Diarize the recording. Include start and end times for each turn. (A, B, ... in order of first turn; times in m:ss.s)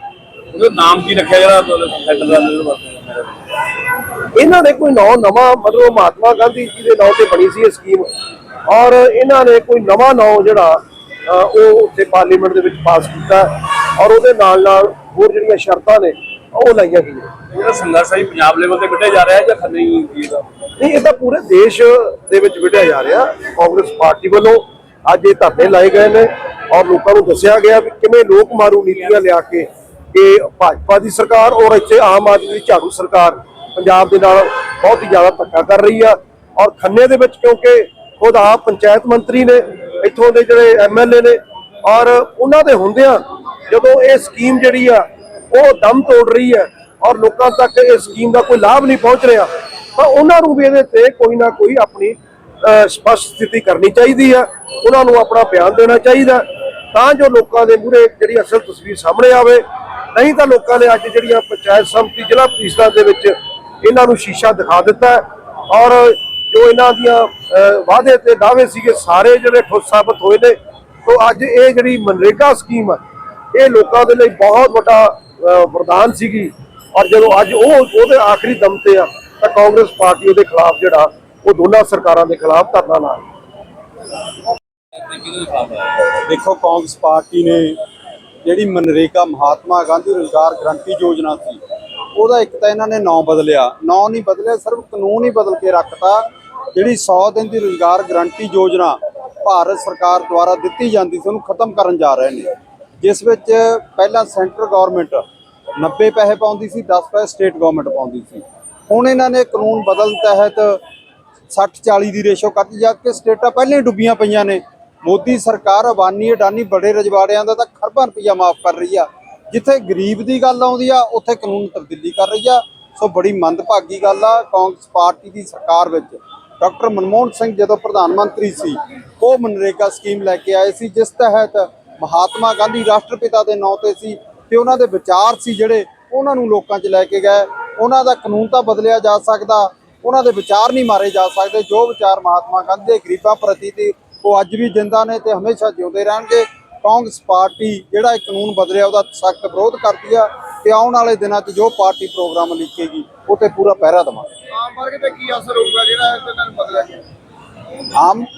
0:00.5-0:03.4 A
0:04.3-0:08.1 B
0:08.7-0:17.3 B
0:17.5-0:20.4 A
0:20.8-1:13.0 B
1:13.5-1:23.2 B
1:25.0-1:26.0 A
1:26.1-1:27.8 C
1:28.4-1:31.6 C
1:32.1-1:45.2 C
1:45.8-1:50.8 C
1:51.5-2:34.3 C
2:34.7-2:37.0 D
2:35.0-2:36.8 A
2:38.0-2:38.3 C